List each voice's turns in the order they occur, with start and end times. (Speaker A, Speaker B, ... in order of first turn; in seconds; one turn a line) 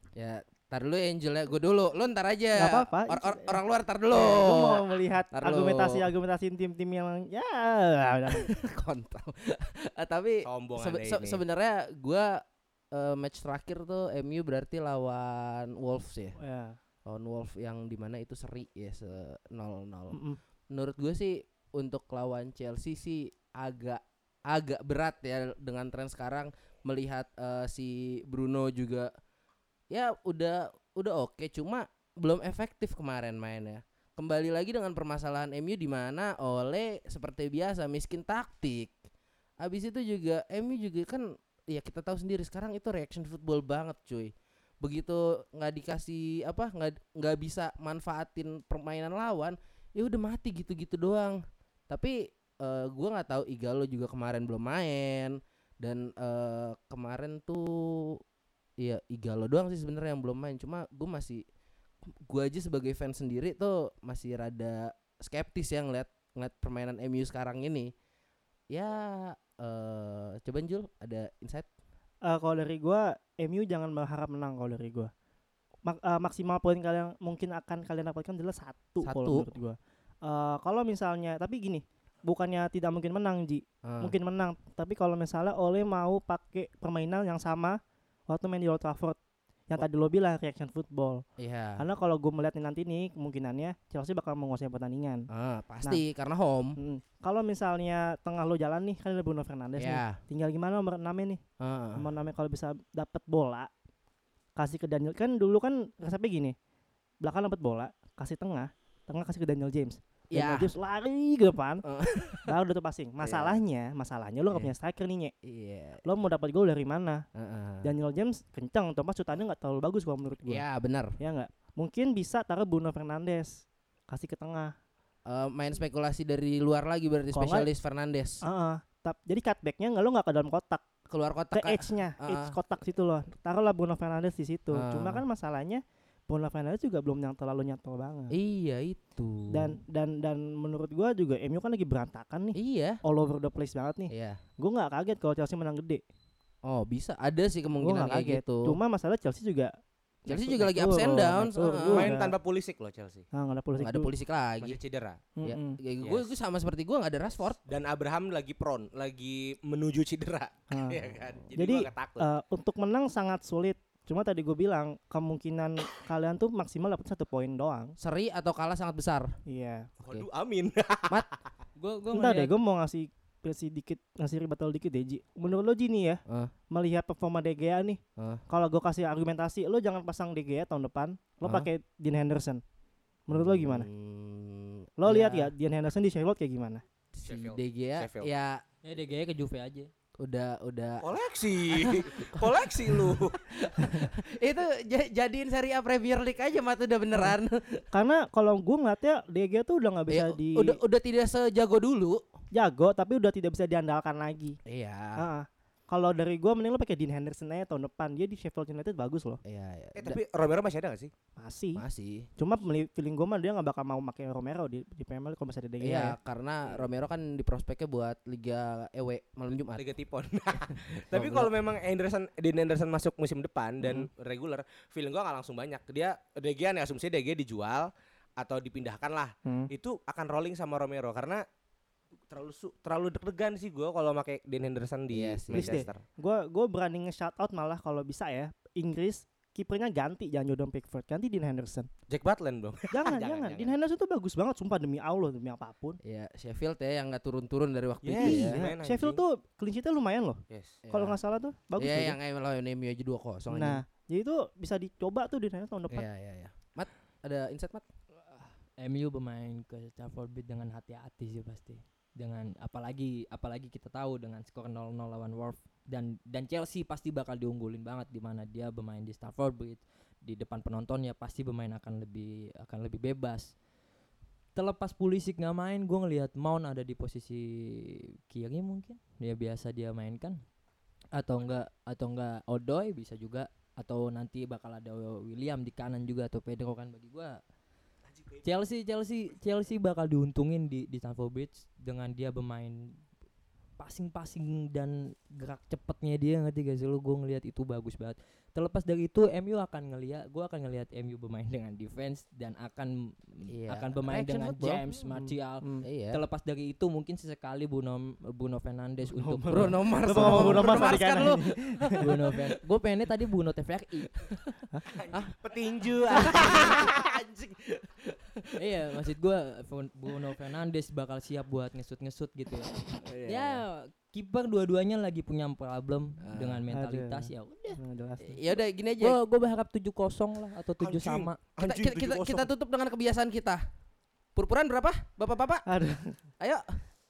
Speaker A: 0.1-6.1
Speaker B: 2.5-8.5
Speaker A: 8.3-16.4
Speaker C: 10.4-11.4
Speaker B: 16.4-16.8
Speaker A: 17.1-20.2
Speaker B: 20.1-20.4
Speaker A: 20.7-29.1
Speaker A: 29.9-39.0
Speaker A: 39.6-58.2
Speaker A: 58.8-61.4
Speaker A: 62.2-67.9
Speaker A: 68.7-71.7
Speaker B: 72.2-75.1
Speaker B: 75.8-89.2
Speaker A: 79.0-79.5
Speaker A: 83.8-84.1
Speaker B: 89.7-91.2
Speaker A: 91.4-91.8
Speaker B: 91.8-95.3
Speaker A: 95.3-96.8
Speaker B: 96.8-101.4
Speaker A: 99.8-100.2
Speaker A: 101.6-102.1
Speaker B: 102.0-103.7
Speaker B: 104.5-106.5
Speaker B: 107.2-111.8
Speaker A: 110.3-110.7
Speaker A: 111.8-112.5
Speaker B: 112.4-115.3
Speaker A: 113.2-113.6
Speaker A: 115.4-116.0
Speaker B: 116.0-117.2
Speaker A: 117.3-117.9
Speaker B: 117.8-120.6
Speaker A: 120.5-121.2
Speaker B: 121.2-124.7
Speaker A: 125.3-128.4
Speaker B: 127.3-127.7
Speaker B: 128.4-130.8
Speaker A: 131.1-132.6
Speaker B: 131.5-138.3
Speaker A: 134.7-135.2
Speaker A: 138.3-139.8
Speaker B: 139.5-146.0
Speaker A: 142.5-143.0
Speaker A: 144.1-144.4
Speaker A: 146.6-148.8
Speaker B: 147.8-149.7
Speaker B: 150.2-152.3
Speaker A: 150.2-152.2
Speaker C: 151.9-153.2
Speaker B: 153.3-154.1
Speaker A: 153.8-154.8
Speaker C: 154.6-155.2
Speaker B: 155.3-155.8
Speaker A: 155.4-157.6
Speaker C: 156.0-156.3
Speaker C: 157.7-162.2
Speaker B: 160.7-167.9
Speaker A: 168.0-169.3
Speaker B: 169.5-169.9
Speaker C: 170.0-171.3
Speaker D: 171.8-172.5
Speaker B: 172.1-182.6
Speaker A: 176.3-176.5
Speaker A: 178.2-178.4
Speaker A: 181.4-181.7
Speaker B: 183.3-183.9
Speaker A: 183.3-185.5
Speaker B: 185.0-186.8
Speaker A: 187.1-188.6
Speaker C: 187.2-188.3
Speaker D: 188.8-189.9
Speaker A: 190.2-191.1
Speaker C: 191.0-193.4
Speaker A: 191.7-197.8
Speaker B: 197.9-200.8
Speaker A: 200.1-202.2
Speaker B: 202.5-204.6
Speaker A: 204.7-205.2
Speaker B: 205.2-209.4
Speaker A: 209.4-210.2
Speaker C: 209.9-211.1
Speaker B: 211.3-211.8
Speaker A: 211.8-212.3
Speaker B: 212.4-216.2
Speaker A: 215.8-219.8
Speaker C: 219.7-231.4
Speaker A: 221.1-221.5
Speaker B: 223.8-224.1
Speaker B: 229.4-229.7
Speaker C: 232.3-236.0
Speaker A: 235.1-235.8
Speaker B: 235.5-241.9
Speaker C: 242.1-243.7
Speaker B: 242.9-246.0
Speaker A: 246.0-248.6
Speaker C: 248.0-249.2
Speaker B: 248.2-252.2
Speaker C: 250.5-250.8
Speaker A: 250.8-251.2
Speaker A: 251.8-253.8
Speaker B: 253.5-256.1
Speaker A: 255.9-257.8
Speaker D: 258.3-273.5
Speaker D: 274.6-280.4
Speaker D: 281.1-287.4
Speaker D: 288.4-293.0
Speaker D: 293.8-310.9
Speaker A: 303.5-304.8
Speaker B: 305.1-305.9
Speaker A: 305.8-306.2
Speaker B: 309.1-312.1
Speaker A: 309.5-312.0
Speaker D: 312.0-314.1
Speaker C: 314.9-317.0
Speaker A: 315.9-318.4
Speaker D: 318.6-327.8
Speaker A: 323.0-323.6
Speaker A: 326.2-326.6
Speaker B: 326.7-328.4
Speaker A: 328.2-329.2
Speaker D: 329.0-331.4
Speaker C: 330.8-332.5
Speaker A: 331.6-333.6
Speaker A: 334.4-335.6
Speaker B: 335.6-336.2
Speaker A: 336.4-336.8